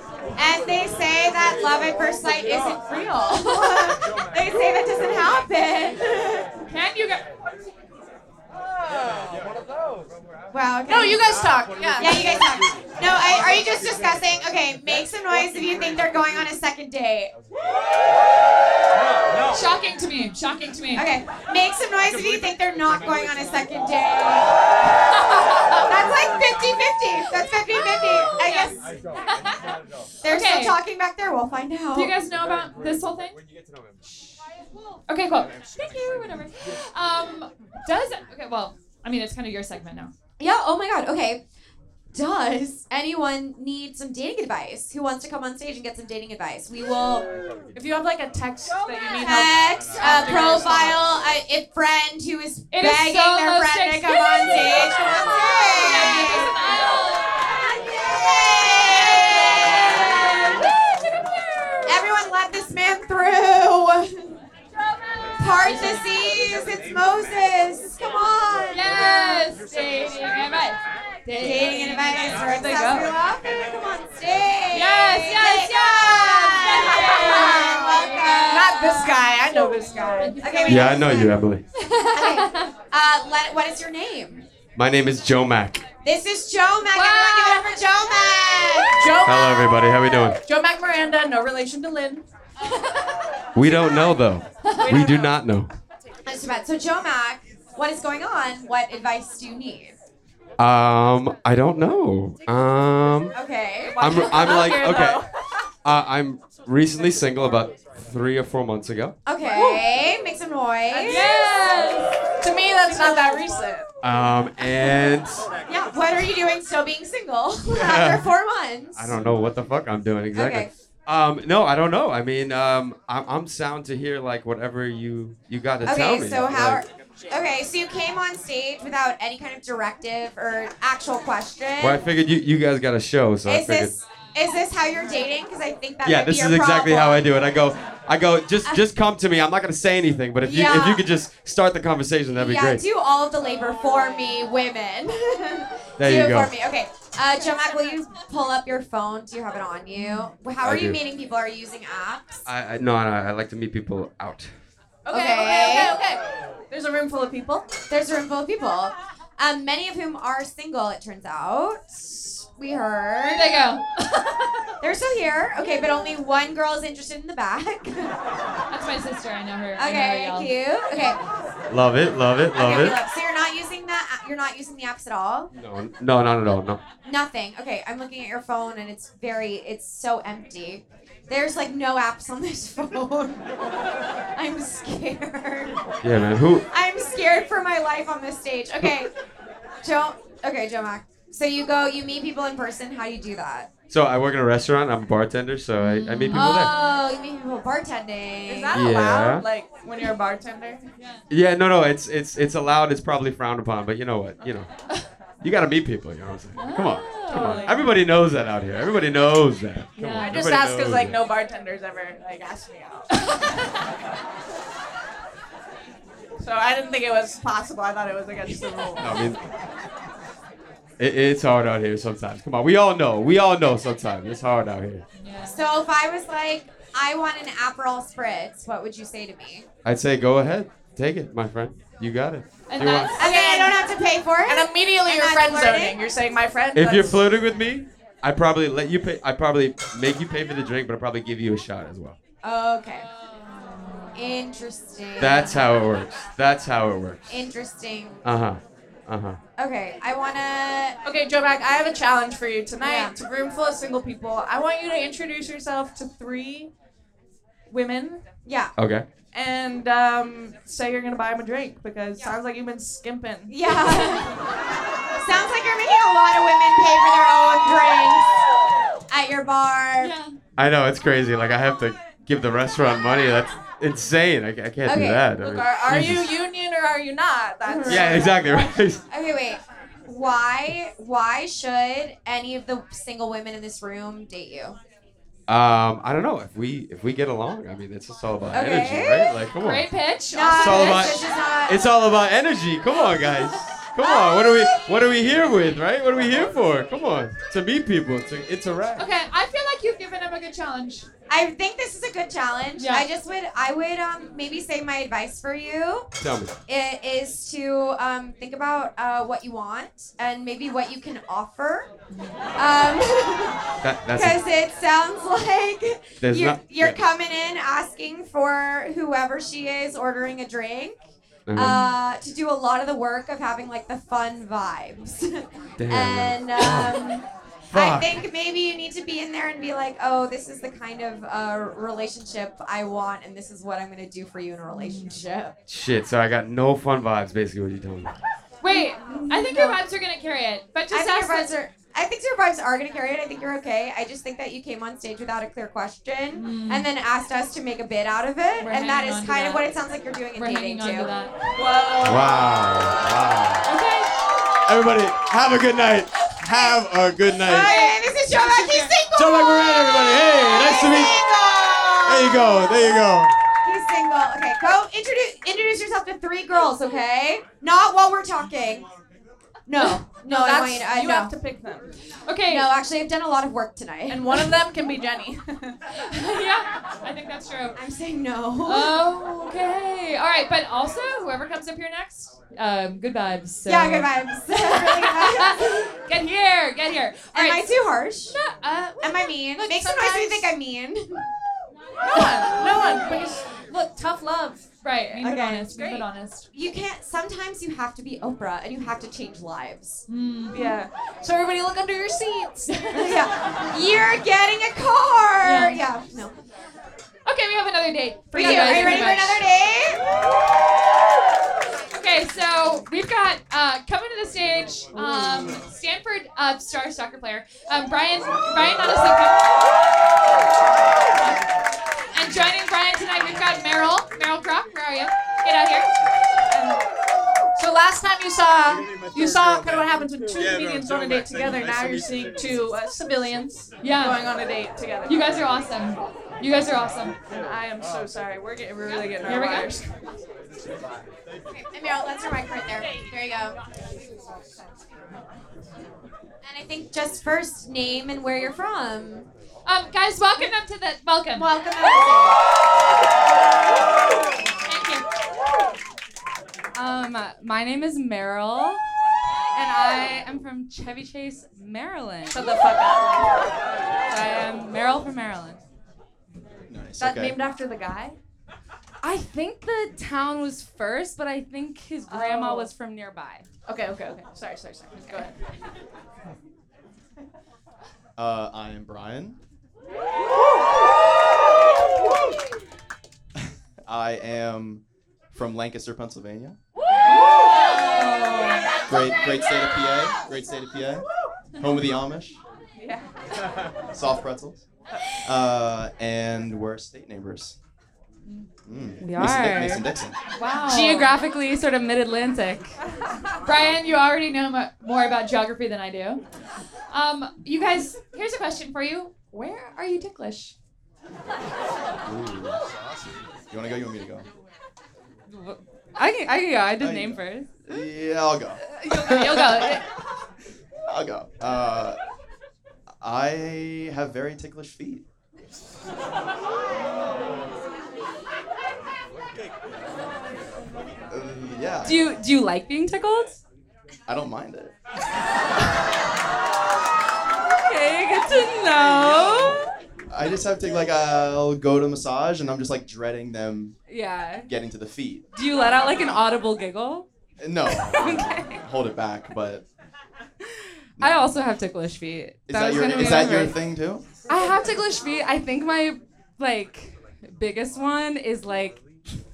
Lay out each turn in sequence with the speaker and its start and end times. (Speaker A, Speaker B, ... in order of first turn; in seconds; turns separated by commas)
Speaker A: 0.3-6.4, Speaker B: 6.7-7.2, Speaker A: 10.5-17.3, Speaker C: 10.9-12.5, Speaker B: 19.5-21.1, Speaker A: 20.9-24.6, Speaker A: 25.7-28.8, Speaker B: 28.4-29.6, Speaker A: 30.2-32.2, Speaker B: 30.2-30.8, Speaker B: 31.9-33.4, Speaker B: 35.1-40.1, Speaker A: 40.4-41.4, Speaker A: 42.1-47.3, Speaker C: 47.7-51.0, Speaker A: 49.2-56.5, Speaker B: 52.7-57.4, Speaker A: 57.8-60.7, Speaker A: 61.9-64.4, Speaker A: 65.4-69.4, Speaker B: 65.6-66.0, Speaker B: 68.7-73.0, Speaker A: 71.3-79.2, Speaker C: 72.4-73.0, Speaker B: 74.7-78.1, Speaker C: 78.4-80.4, Speaker B: 79.9-81.2, Speaker A: 80.4-81.4, Speaker D: 80.7-81.6, Speaker B: 81.8-82.6, Speaker A: 82.1-84.5, Speaker D: 84.7-85.9, Speaker A: 86.0-89.2, Speaker B: 86.9-87.7, Speaker C: 89.0-89.9, Speaker D: 89.2-90.4, Speaker C: 90.4-92.2, Speaker D: 93.5-95.7, Speaker B: 94.6-94.9, Speaker C: 94.8-95.3, Speaker A: 96.2-100.0, Speaker D: 100.6-103.3, Speaker A: 103.3-104.6, Speaker C: 103.8-105.3, Speaker D: 104.0-105.2, Speaker D: 105.8-109.2, Speaker A: 109.2-111.2, Speaker B: 111.0-112.1, Speaker C: 111.1-111.8, Speaker C: 112.4-113.8, Speaker A: 112.9-113.4, Speaker D: 114.0-115.5, Speaker A: 115.7-119.3, Speaker D: 117.7-118.3, Speaker D: 118.9-126.8, Speaker A: 120.3-120.7, Speaker A: 125.8-132.1, Speaker D: 131.8-133.9, Speaker A: 133.4-137.3, Speaker D: 136.0-142.8, Speaker A: 140.4-141.1, Speaker A: 142.3-152.4, Speaker D: 146.0-146.5, Speaker B: 150.0-150.3, Speaker D: 150.6-151.0, Speaker D: 152.4-154.5, Speaker C: 155.0-157.7, Speaker A: 155.1-156.0, Speaker A: 157.9-163.6, Speaker B: 163.2-164.3, Speaker A: 164.8-168.1, Speaker B: 168.7-170.5, Speaker A: 169.8-171.2, Speaker D: 171.7-173.0, Speaker A: 172.5-175.5, Speaker D: 175.5-176.8, Speaker A: 177.0-183.5, Speaker A: 184.3-185.8, Speaker D: 186.0-186.7, Speaker A: 186.6-189.1, Speaker A: 189.8-193.7, Speaker D: 193.9-196.7, Speaker B: 195.8-196.6, Speaker A: 196.3-198.8, Speaker C: 198.5-200.9, Speaker D: 198.7-199.4, Speaker B: 201.0-201.2, Speaker D: 201.3-204.7, Speaker D: 205.4-211.2, Speaker B: 206.6-207.8, Speaker C: 207.3-207.8, Speaker B: 210.0-210.4, Speaker C: 210.2-213.1, Speaker C: 216.4-219.1, Speaker D: 219.0-219.4, Speaker D: 221.0-225.0, Speaker B: 225.2-225.6, Speaker A: 225.4-229.7, Speaker D: 229.8-233.2, Speaker B: 232.7-233.2, Speaker A: 233.2-236.0, Speaker C: 233.2-233.8, Speaker C: 234.4-237.2, Speaker D: 236.7-242.2, Speaker A: 242.4-243.1, Speaker B: 243.3-244.1, Speaker A: 244.1-245.6, Speaker D: 245.2-247.4, Speaker A: 247.3-248.2, Speaker D: 248.2-249.4, Speaker A: 249.6-251.0, Speaker C: 251.0-256.7, Speaker A: 252.8-253.2, Speaker C: 257.7-258.2, Speaker A: 258.4-258.7, Speaker D: 258.8-259.1, Speaker C: 259.3-263.5, Speaker A: 263.5-264.4, Speaker B: 263.8-264.2, Speaker A: 265.1-268.3, Speaker A: 269.1-270.1, Speaker B: 270.0-270.3, Speaker D: 270.6-276.4, Speaker A: 274.8-275.3, Speaker C: 275.4-278.7, Speaker A: 277.6-278.2, Speaker D: 277.9-279.0, Speaker A: 279.1-284.8, Speaker D: 285.5-289.9, Speaker A: 288.5-289.4, Speaker B: 289.6-291.3, Speaker A: 290.3-291.8, Speaker D: 290.6-299.0, Speaker A: 293.9-295.0, Speaker B: 299.0-301.1, Speaker A: 301.3-306.1, Speaker B: 302.8-303.1, Speaker D: 306.2-306.5, Speaker A: 306.7-311.9, Speaker B: 312.1-312.4, Speaker A: 312.6-321.0, Speaker D: 313.8-314.4, Speaker D: 316.2-317.0, Speaker D: 321.5-321.9, Speaker A: 321.5-335.6, Speaker B: 321.6-321.9, Speaker D: 325.8-327.1, Speaker D: 327.7-328.1, Speaker B: 334.7-335.1, Speaker D: 335.7-338.1, Speaker B: 338.6-341.5, Speaker A: 338.6-339.8, Speaker A: 340.9-351.1, Speaker B: 346.3-346.9, Speaker B: 348.6-349.7, Speaker B: 350.3-351.3, Speaker C: 351.6-352.2, Speaker D: 352.0-353.6, Speaker B: 353.6-354.1, Speaker D: 354.6-357.7, Speaker A: 356.4-356.8, Speaker A: 357.4-362.8, Speaker B: 357.5-358.9, Speaker D: 359.1-361.3, Speaker D: 361.9-363.3, Speaker A: 363.6-368.9, Speaker A: 369.6-371.3, Speaker C: 370.2-371.9, Speaker B: 372.2-372.7, Speaker A: 372.5-374.6, Speaker C: 374.1-375.8, Speaker B: 376.0-377.8, Speaker A: 377.8-379.0, Speaker B: 378.6-387.7, Speaker A: 383.6-385.8, Speaker A: 387.3-388.4, Speaker B: 388.3-389.1, Speaker A: 389.0-391.3, Speaker C: 389.6-390.5, Speaker C: 392.0-396.0, Speaker B: 394.8-396.5, Speaker A: 395.2-395.6, Speaker A: 396.5-400.0, Speaker B: 400.1-400.8, Speaker C: 400.5-402.7, Speaker A: 402.9-406.4, Speaker B: 405.4-405.8, Speaker B: 407.2-409.4, Speaker A: 408.3-410.0, Speaker C: 408.4-409.1, Speaker B: 411.9-419.5, Speaker B: 422.1-425.9, Speaker C: 426.5-426.8, Speaker C: 427.5-435.5, Speaker B: 433.8-434.2, Speaker B: 435.1-437.1, Speaker C: 437.4-439.9, Speaker B: 438.9-439.7, Speaker A: 441.5-443.6, Speaker A: 446.4-449.3, Speaker B: 449.6-451.5, Speaker A: 451.3-452.4, Speaker B: 454.6-455.1, Speaker E: 456.7-458.8, Speaker E: 459.5-462.6, Speaker C: 462.3-463.3, Speaker E: 464.1-465.6, Speaker F: 466.7-467.4, Speaker C: 467.0-468.2, Speaker E: 469.0-473.4, Speaker C: 472.1-472.7, Speaker C: 473.6-475.4, Speaker F: 478.2-479.4, Speaker F: 483.9-486.6, Speaker B: 487.9-488.6, Speaker F: 488.9-491.1, Speaker F: 491.6-492.4, Speaker C: 492.8-493.1, Speaker F: 493.9-494.6, Speaker F: 495.2-497.5, Speaker F: 498.6-500.2, Speaker E: 499.0-499.9, Speaker B: 500.4-501.1, Speaker E: 500.6-502.8, Speaker B: 503.4-506.2, Speaker B: 506.9-510.5, Speaker F: 512.0-514.2, Speaker E: 515.3-517.9, Speaker F: 516.8-519.8, Speaker E: 518.6-519.8, Speaker F: 520.9-522.0, Speaker F: 523.0-525.0, Speaker F: 531.1-532.1, Speaker E: 531.8-533.4, Speaker F: 534.1-534.7, Speaker E: 537.5-539.6, Speaker F: 538.6-539.5, Speaker F: 540.1-543.8, Speaker E: 543.9-544.5, Speaker F: 544.4-545.2, Speaker E: 545.3-547.1, Speaker F: 547.4-549.6, Speaker E: 547.7-548.6, Speaker F: 551.0-551.4, Speaker E: 551.0-553.6, Speaker F: 552.5-554.1, Speaker E: 554.3-558.8